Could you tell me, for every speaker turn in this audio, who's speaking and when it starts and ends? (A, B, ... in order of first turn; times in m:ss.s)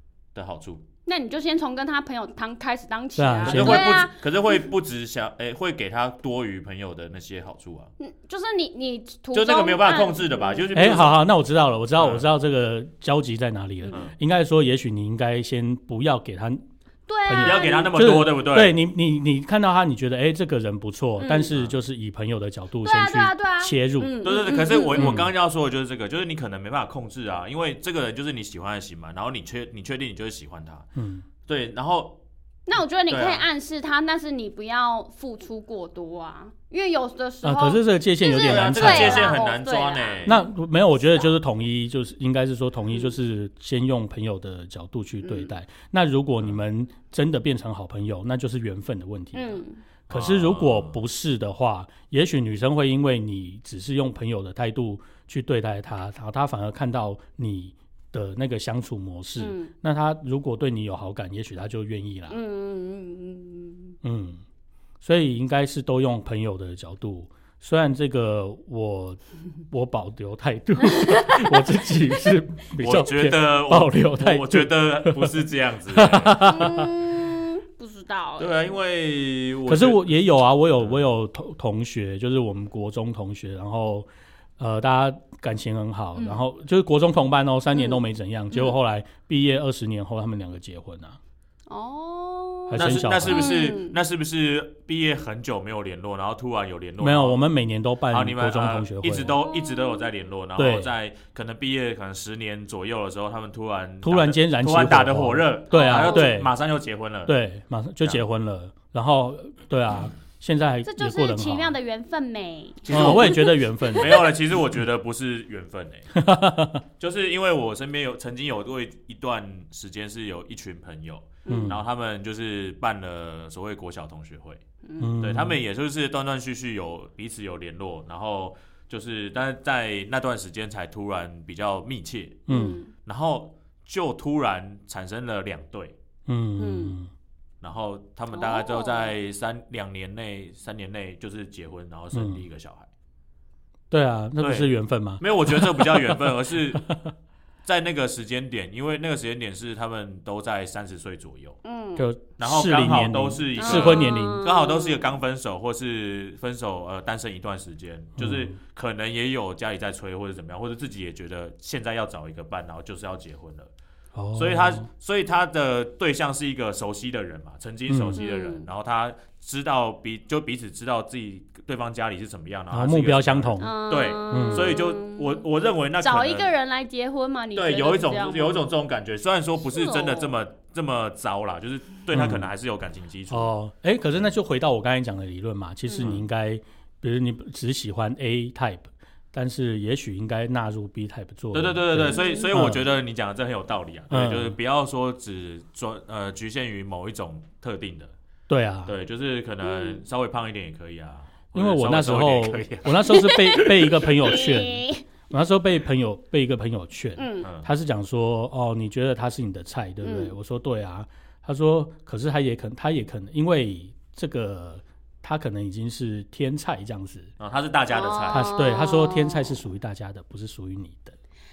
0:00.4-0:00.8 A
0:01.1-0:04.2 B
0:03.2-0:03.9 C
0:03.5-0:07.9 A
0:08.0-0:11.0 B
0:09.3-0:11.2 A
0:10.8-0:16.6 C
0:12.0-0:12.3 A
0:17.1-0:17.9 B
0:17.3-0:24.2 C
0:17.4-0:18.8 A
0:21.2-0:21.5 B
0:22.8-0:25.2 B
0:24.2-0:30.9 A
0:25.0-0:25.3 C
0:31.0-0:31.2 C
0:31.5-0:32.2 A
0:32.7-0:41.3 B
0:33.1-0:33.5 A
0:37.4-0:39.4 C
0:38.4-0:40.4 A
0:40.3-1:02.4 C
0:42.9-0:43.2 B
0:45.2-0:45.5 B
0:49.3-0:49.8 B
0:50.1-0:51.0 A
0:59.4-0:59.7 B
1:02.3-1:04.0 B
1:04.0-1:04.4 C
1:05.0-1:09.2 C
1:09.7-1:15.4 C
1:10.8-1:11.7 B
1:12.8-1:16.5 A
1:15.9-1:16.9 C
1:16.4-1:18.7 B
1:18.4-1:20.3 A
1:19.7-1:24.1 C
1:20.8-1:21.0 A
1:24.6-1:31.2 C
1:26.2-1:26.4 B
1:27.7-1:28.8 B
1:31.7-1:34.0 B
1:32.7-1:33.5 C
1:32.7-1:37.4 A
1:37.0-1:39.4 C
1:38.1-1:47.4 A
1:39.2-1:40.1 B
1:40.6-1:40.9 C
1:44.0-1:46.5 C
1:45.7-1:46.4 B
1:47.3-1:51.7 C
1:50.8-1:54.2 B
1:52.9-1:53.4 A
1:52.9-1:54.2 C
1:54.0-1:56.1 A
1:56.1-1:56.8 C
1:57.0-2:04.6 A
2:01.5-2:01.8 B
2:01.5-2:01.8 C
2:04.8-2:05.1 B
2:05.0-2:05.6 C
2:05.2-2:12.5 A
2:12.5-2:12.8 C
2:12.5-2:12.9 B
2:13.0-2:16.0 A
2:16.3-2:17.1 C
2:16.6-2:17.0 B
2:17.6-2:22.9 A
2:18.3-2:19.1 B
2:22.1-2:22.4 C
2:23.9-2:26.3 C
2:24.4-2:24.7 A
2:25.2-2:26.8 A
2:26.8-2:27.1 C
2:27.6-2:31.6 A
2:31.6-2:32.0 B
2:32.0-2:34.4 C
2:32.4-2:43.7 A
2:33.6-2:35.2 B
2:38.2-2:38.6 C
2:44.2-2:44.9 C
2:44.4-2:56.5 A
2:47.9-2:48.2 C
2:48.2-2:48.7 B
2:52.7-2:53.8 C
2:53.6-2:55.5 B
2:54.3-2:54.7 C
2:56.0-2:58.7 B
2:57.6-3:03.5 A
2:59.6-3:00.3 B
3:02.1-3:02.5 C
3:03.3-3:12.8 C
3:05.9-3:06.2 B
3:11.5-3:18.1 A
3:12.1-3:12.6 B
3:14.1-3:14.6 C
3:18.5-3:18.9 C
3:18.9-3:23.0 A
3:19.6-3:20.0 B
3:21.5-3:37.3 C
3:23.1-3:25.0 B
3:27.2-3:27.5 B
3:27.4-3:27.7 A
3:30.0-3:30.3 B
3:37.4-3:38.6 A
3:37.9-3:39.6 B
3:38.3-3:41.2 C